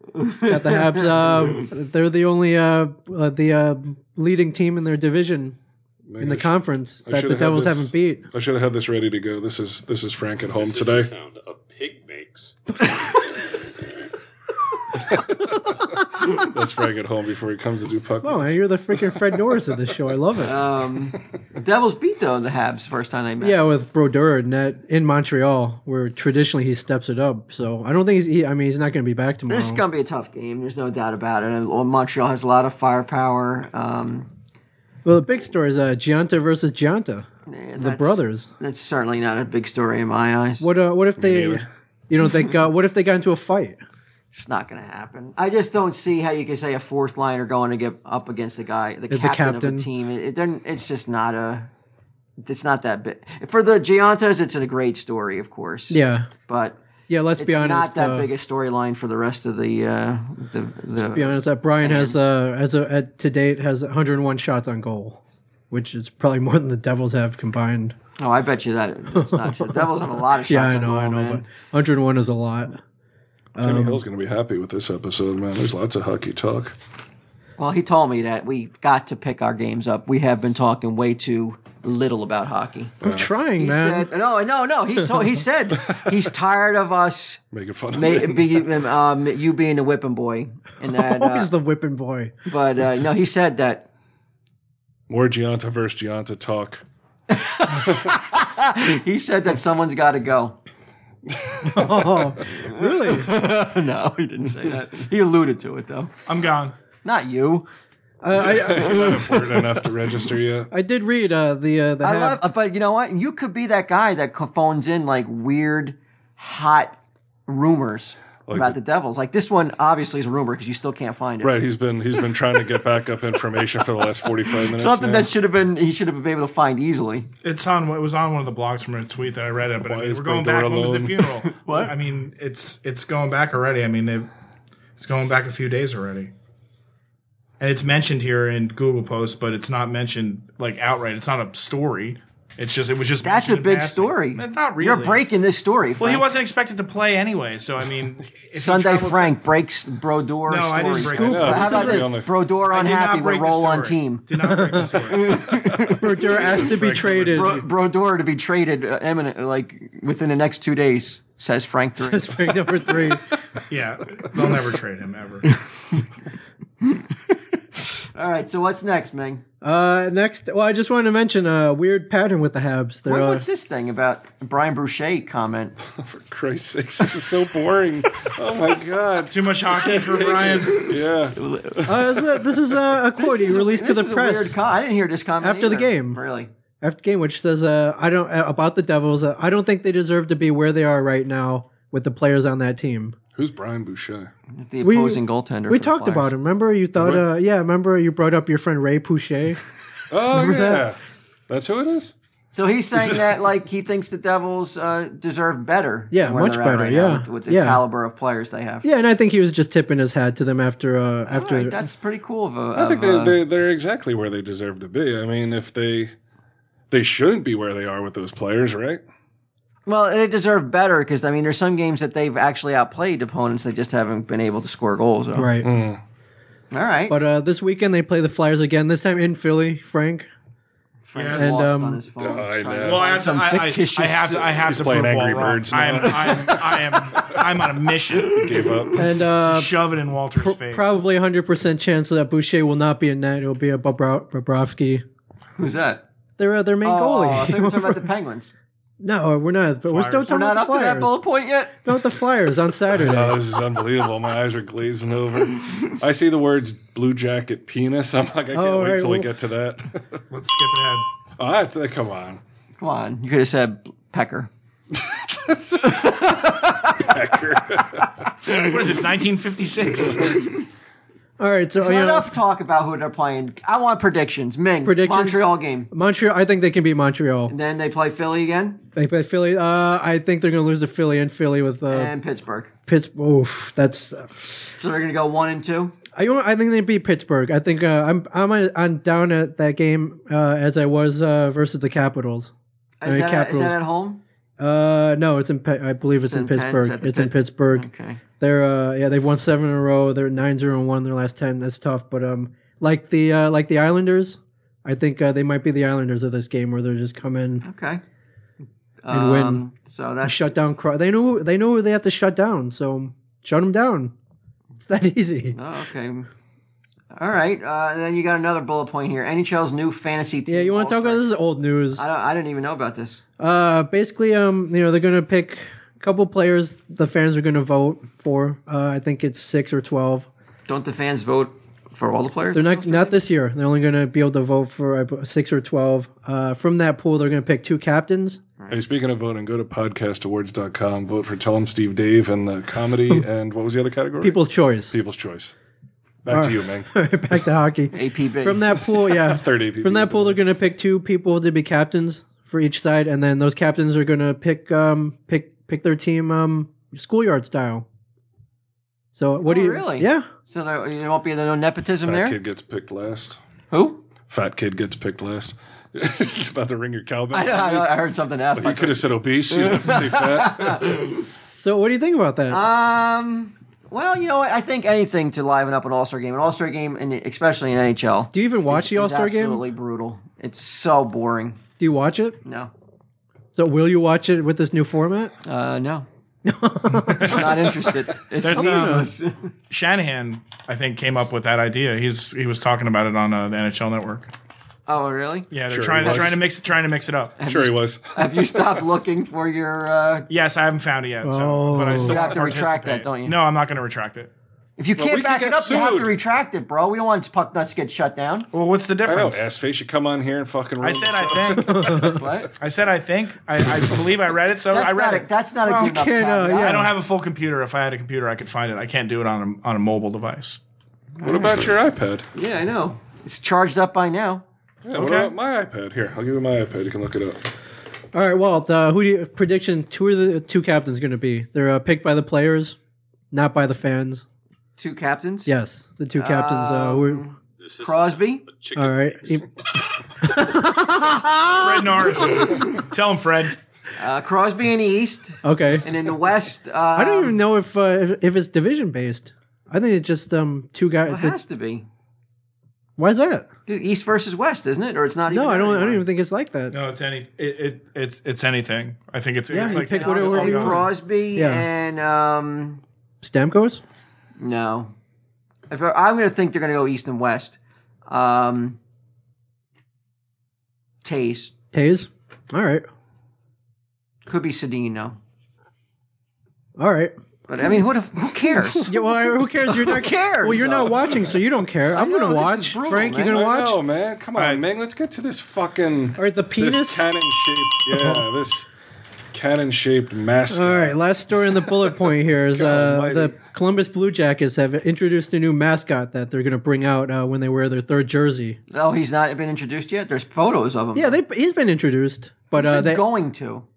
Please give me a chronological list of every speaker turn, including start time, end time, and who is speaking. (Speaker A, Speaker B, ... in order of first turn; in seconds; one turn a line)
Speaker A: 0.1-1.7
Speaker B: 0.5-5.5
Speaker C: 6.0-11.1
Speaker B: 6.2-8.2
Speaker D: 10.4-12.6
Speaker C: 15.0-19.6
Speaker B: 18.2-20.6
Speaker A: 20.4-23.6
Speaker B: 23.4-29.8
Speaker A: 29.5-34.3
Speaker B: 35.0-38.5
Speaker A: 37.5-40.7
Speaker B: 40.6-43.8
Speaker C: 41.2-41.7
Speaker A: 44.3-51.7
Speaker B: 49.1-49.9
Speaker A: 52.4-56.8
Speaker B: 55.9-56.3
Speaker B: 57.1-58.3
Speaker A: 57.4-62.2
Speaker B: 61.0-67.9
Speaker A: 68.2-71.4
Speaker B: 69.1-69.9
Speaker B: 70.4-72.8
Speaker B: 73.5-74.0
Speaker C: 73.6-76.7
Speaker A: 77.6-82.9
Speaker B: 83.0-84.1
Speaker C: 83.0-83.3
Speaker A: 83.6-87.4
Speaker C: 87.5-88.7
Speaker A: 87.9-91.5
Speaker B: 90.9-92.3
Speaker A: 92.5-93.9
Speaker C: 95.1-96.8
Speaker A: 97.3-100.6
Speaker C: 101.3-102.3
Speaker B: 101.7-103.3
Speaker A: 102.5-106.1
Speaker E: 106.3-106.7
Speaker A: 107.0-107.7
Speaker B: 108.2-109.1
Speaker C: 108.3-110.7
Speaker A: 108.4-109.9
Speaker B: 110.7-112.4
Speaker A: 112.0-121.6
Speaker C: 118.5-118.7
Speaker C: 121.4-125.3
Speaker A: 124.6-127.3
Speaker E: 127.4-134.3
Speaker C: 129.8-131.3
Speaker A: 131.4-131.9
Speaker E: 135.0-136.3
Speaker E: 137.6-145.2
Speaker A: 143.2-146.2
Speaker E: 146.0-149.4
Speaker A: 148.6-154.3
Speaker E: 150.5-151.9
Speaker B: 151.0-152.1
Speaker C: 151.3-152.3
Speaker E: 152.7-155.5
Speaker B: 154.4-154.9
Speaker A: 155.1-156.1
Speaker B: 155.9-157.6
Speaker C: 156.5-157.6
Speaker A: 157.2-162.5
Speaker B: 162.0-163.2
Speaker E: 163.7-165.5
Speaker A: 166.9-169.4
Speaker B: 169.6-173.4
Speaker A: 173.1-175.7
Speaker C: 175.8-182.5
Speaker E: 179.3-180.9
Speaker A: 180.6-181.9
Speaker B: 181.8-184.6
Speaker A: 183.1-186.5
Speaker B: 185.4-186.2
Speaker B: 186.8-193.2
Speaker C: 193.3-194.3
Speaker A: 194.5-196.3
Speaker B: 194.8-199.6
Speaker C: 196.9-197.3
Speaker C: 200.1-202.1
Speaker B: 200.3-200.9
Speaker A: 202.5-208.9
Speaker C: 202.9-203.3
Speaker B: 206.1-207.8
Speaker B: 208.8-211.8
Speaker A: 211.2-213.4
Speaker C: 212.7-216.1
Speaker C: 216.9-219.0
Speaker A: 219.8-225.5
Speaker B: 225.3-225.7
Speaker C: 225.6-226.0
Speaker A: 226.7-227.3
Speaker B: 227.1-230.3
Speaker A: 231.1-234.6
Speaker E: 231.1-231.7
Speaker B: 231.4-232.0
Speaker C: 232.2-233.0
Speaker E: 232.8-241.0
Speaker C: 234.6-237.7
Speaker C: 238.2-239.3
Speaker B: 238.9-239.7
Speaker B: 240.3-245.0
Speaker A: 245.6-246.0
Speaker B: 246.4-248.1
Speaker A: 246.8-248.5
Speaker B: 249.0-251.1
Speaker E: 249.8-250.3
Speaker A: 250.2-251.8
Speaker B: 251.8-253.4
Speaker C: 252.9-260.2
Speaker B: 258.5-259.3
Speaker E: 260.3-261.0
Speaker C: 261.4-262.4
Speaker A: 262.8-264.5
Speaker C: 264.9-268.1
Speaker A: 265.8-267.2
Speaker E: 268.6-270.4
Speaker B: 271.4-272.3
Speaker A: 271.8-275.9
Speaker B: 274.8-277.5
Speaker A: 277.5-278.8
Speaker B: 278.9-282.1
Speaker A: 281.9-282.7
Speaker B: 282.9-284.4
Speaker A: 284.8-285.9
Speaker B: 286.1-292.5
Speaker A: 293.0-294.2
Speaker B: 293.1-293.8
Speaker B: 294.6-297.9
Speaker A: 296.2-298.2
Speaker B: 298.4-307.6
Speaker A: 307.6-308.0
Speaker A: 309.0-310.6
Speaker B: 309.1-309.6
Speaker B: 310.2-314.1
Speaker B: 314.8-315.6
Speaker A: 315.5-316.3
Speaker A: 317.1-321.2
Speaker B: 320.5-322.0
Speaker A: 321.9-323.2
Speaker B: 323.4-330.3
Speaker A: 330.7-333.2
Speaker B: 332.5-338.4
Speaker C: 338.7-345.5
Speaker B: 344.2-344.9
Speaker C: 346.2-347.3
Speaker B: 346.3-357.8
Speaker A: 347.9-348.7
Speaker C: 348.7-350.4
Speaker B: 359.1-360.3
Speaker A: 359.4-362.4
Speaker C: 362.0-363.4
Speaker A: 363.7-364.0
Speaker C: 364.3-368.0
Speaker A: 367.3-371.2
Speaker C: 368.5-370.9
Speaker B: 371.6-372.6
Speaker A: 372.5-381.6
Speaker B: 378.3-379.7
Speaker B: 381.8-382.4
Speaker A: 382.4-382.7
Speaker B: 383.5-385.3
Speaker A: 385.4-386.1
Speaker B: 386.4-387.8
Speaker A: 387.2-389.5
Speaker E: 388.4-389.1
Speaker B: 388.5-389.0
Speaker E: 389.7-394.3
Speaker A: 394.9-395.5
Speaker E: 395.5-397.3
Speaker C: 395.7-396.4
Speaker A: 396.0-396.3
Speaker A: 397.4-400.3
Speaker C: 397.4-398.8
Speaker E: 400.3-404.3
Speaker B: 401.2-402.3
Speaker A: 402.0-403.4
Speaker A: 404.8-408.5
Speaker C: 405.0-406.2
Speaker E: 408.5-409.4
Speaker C: 409.0-412.4
Speaker E: 410.8-420.6
Speaker B: 411.7-412.2
Speaker A: 412.2-412.5
Speaker A: 414.7-416.8
Speaker B: 415.6-416.9
Speaker A: 421.2-421.5
Speaker C: 421.2-422.2
Speaker A: 422.3-424.4
Speaker C: 424.8-427.4
Speaker E: 424.9-425.3
Speaker B: 428.1-432.8
Speaker B: 433.3-434.2
Speaker A: 434.8-435.5
Speaker B: 435.4-437.2
Speaker A: 436.1-438.4
Speaker D: 437.6-439.5
Speaker B: 438.8-439.4
Speaker B: 440.2-441.7
Speaker E: 441.6-443.6
Speaker A: 444.0-447.3
Speaker B: 445.4-445.9
Speaker B: 446.9-451.4
Speaker A: 451.0-451.9
Speaker B: 453.0-453.5
Speaker A: 453.7-456.0
Speaker B: 455.3-456.8
Speaker E: 456.7-460.8
Speaker B: 459.5-461.6
Speaker A: 459.5-462.8
Speaker B: 463.2-463.8
Speaker A: 464.4-464.9
Speaker A: 465.7-468.8
Speaker A: 471.0-471.5
Speaker B: 471.7-472.9
Speaker A: 474.2-475.2
Speaker B: 476.8-477.1
Speaker A: 477.5-481.1
Speaker B: 478.7-483.8
Speaker C: 481.0-481.3
Speaker A: 481.9-483.4
Speaker C: 483.3-488.7
Speaker E: 484.4-484.6
Speaker B: 486.2-487.1
Speaker B: 487.9-488.2
Speaker C: 489.3-493.3
Speaker B: 490.5-498.6
Speaker A: 498.7-501.2
Speaker B: 500.9-503.1
Speaker A: 502.5-503.6